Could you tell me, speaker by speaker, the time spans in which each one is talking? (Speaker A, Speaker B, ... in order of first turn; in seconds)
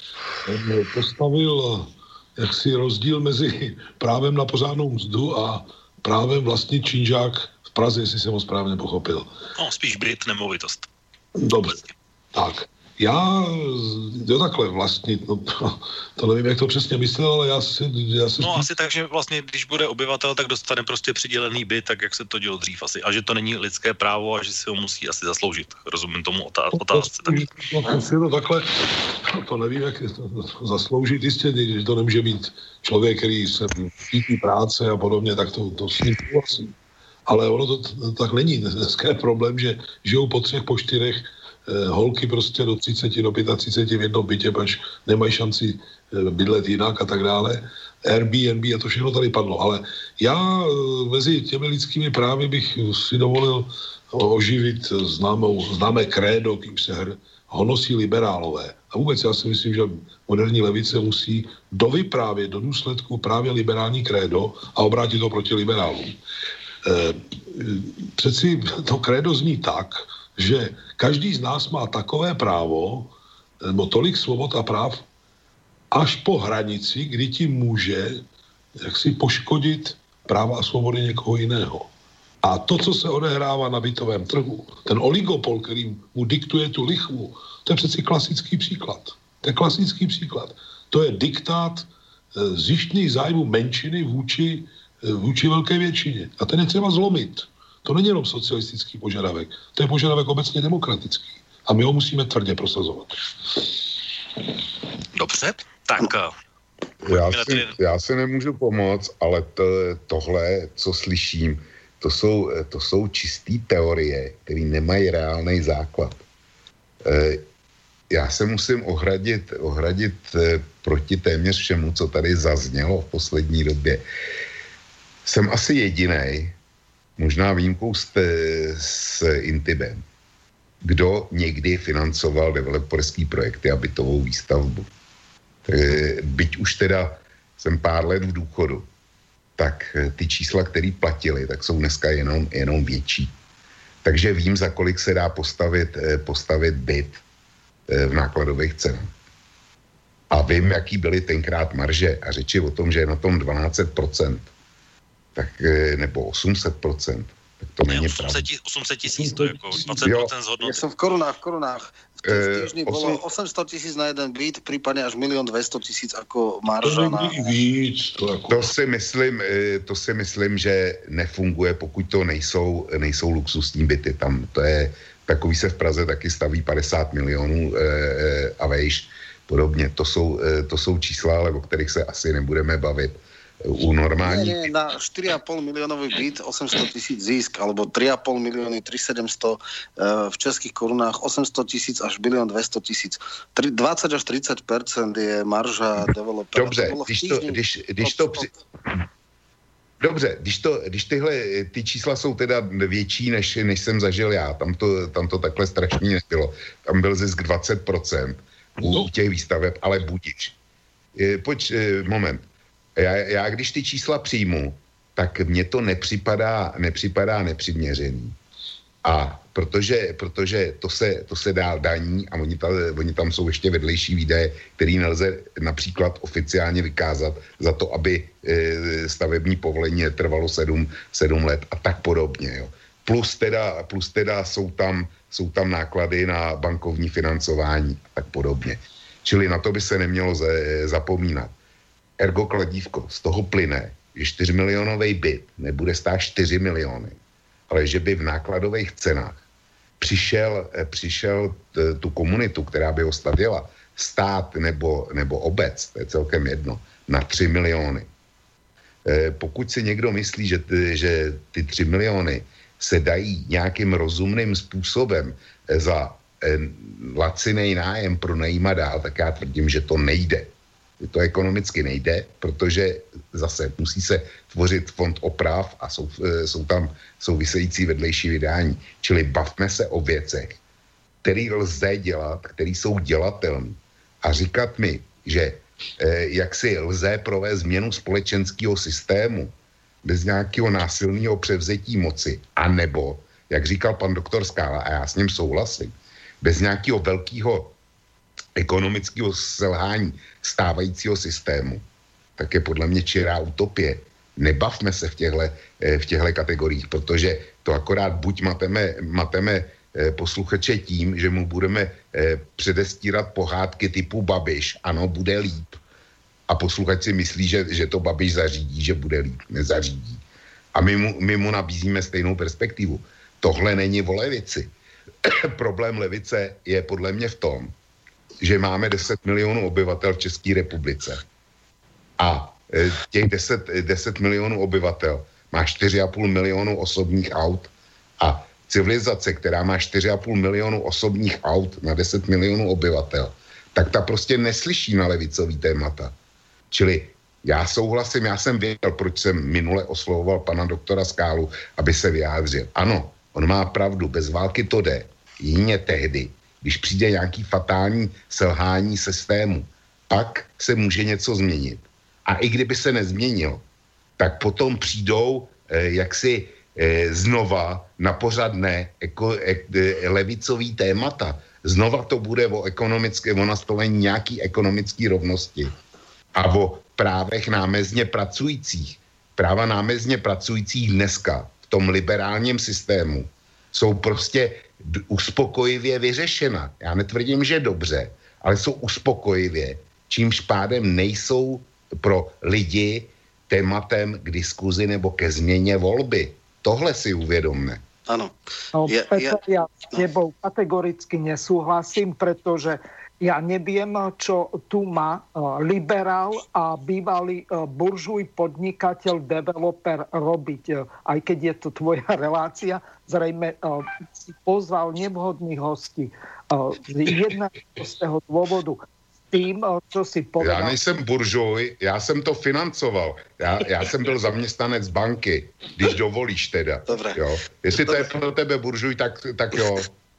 Speaker A: 0.4-9.3, 11.3-11.8, 12.3-18.7, 26.7-36.7, 37.2-66.1, 66.8-75.0, 75.9-78.2, 78.8-81.9, 82.4-103.2, 159.2-160.1, 166.8-168.6, 208.8-209.1
Speaker B: 9.6-10.9, 18.4-27.5, 105.1-106.3, 107.0-107.8, 157.9-160.8
Speaker C: 107.0-116.2, 117.0-117.4, 118.1-124.0, 125.2-126.5, 127.2-130.0, 130.8-134.9, 135.7-138.9, 139.6-143.3, 144.0-147.2, 147.9-149.1, 150.3-154.5, 155.3-158.4, 160.0-160.3, 162.2-163.2, 168.5-184.7, 196.5-198.5, 200.0-210.5, 211.2-218.3, 219.0-241.5, 242.2-247.2, 247.7-249.3, 250.0-258.1, 259.0-280.6, 281.2-289.5, 290.0-297.7, 298.6-301.8, 302.4-315.8, 316.5-320.2, 320.7-324.7, 325.2-327.7, 328.4-331.2, 332.2-346.1, 346.7-363.6, 364.2-375.7, 376.3-397.8, 420.4-429.9
Speaker D: 160.6-167.5, 184.2-198.5, 398.1-398.3, 398.9-399.4, 426.9-427.2
Speaker E: 398.7-420.8